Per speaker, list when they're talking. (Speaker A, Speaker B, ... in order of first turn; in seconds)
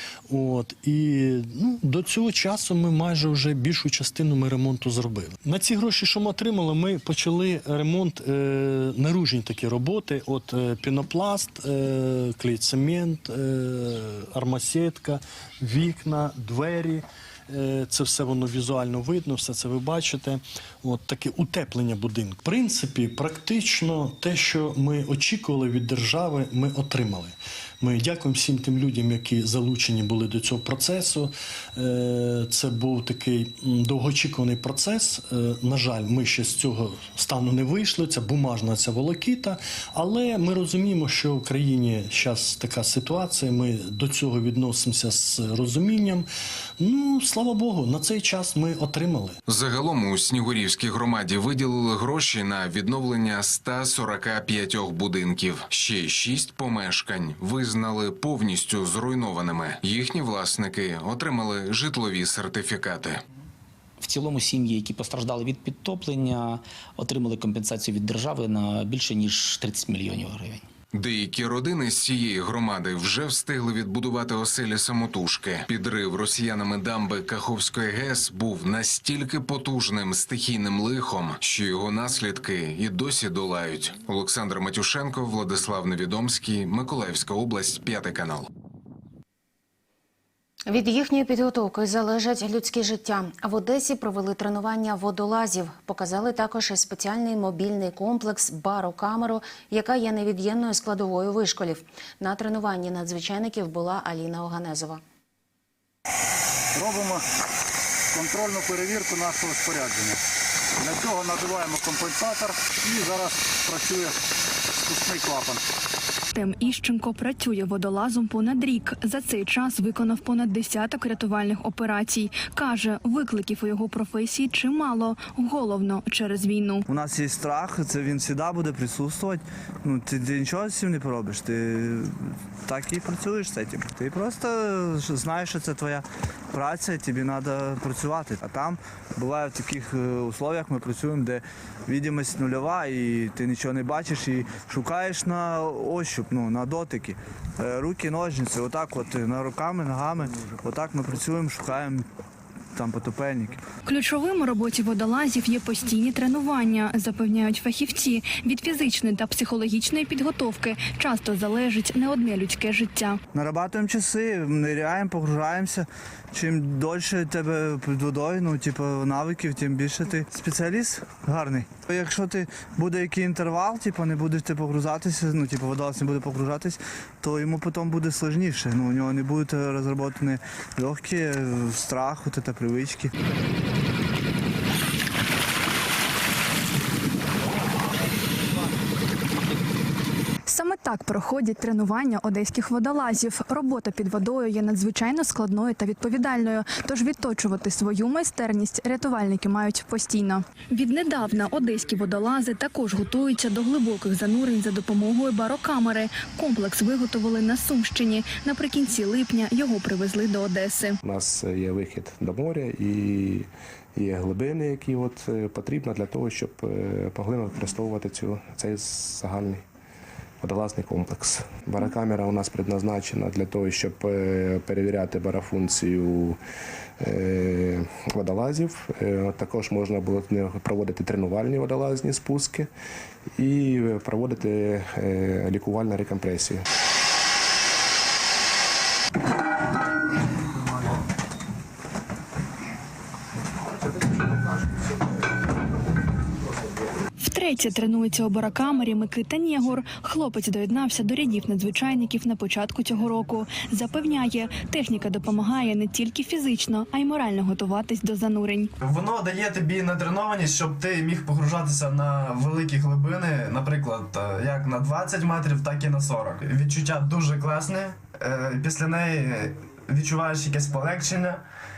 Speaker A: 0.3-46.3, 46.8-49.4
Speaker B: 49.5-63.2, 70.9-88.5
Speaker C: 64.0-70.7
Speaker D: 90.7-105.0
Speaker E: 106.8-107.2, 108.2-110.2, 111.1-114.1, 115.1-115.6
Speaker F: 116.3-126.8, 153.8-163.2, 190.5-211.0, 247.2-258.7
Speaker G: 126.9-152.1, 152.7-153.6, 163.3-183.1
Speaker H: 211.0-219.6, 220.4-226.4, 227.0-232.7, 233.4-236.7
Speaker I: 258.8-271.4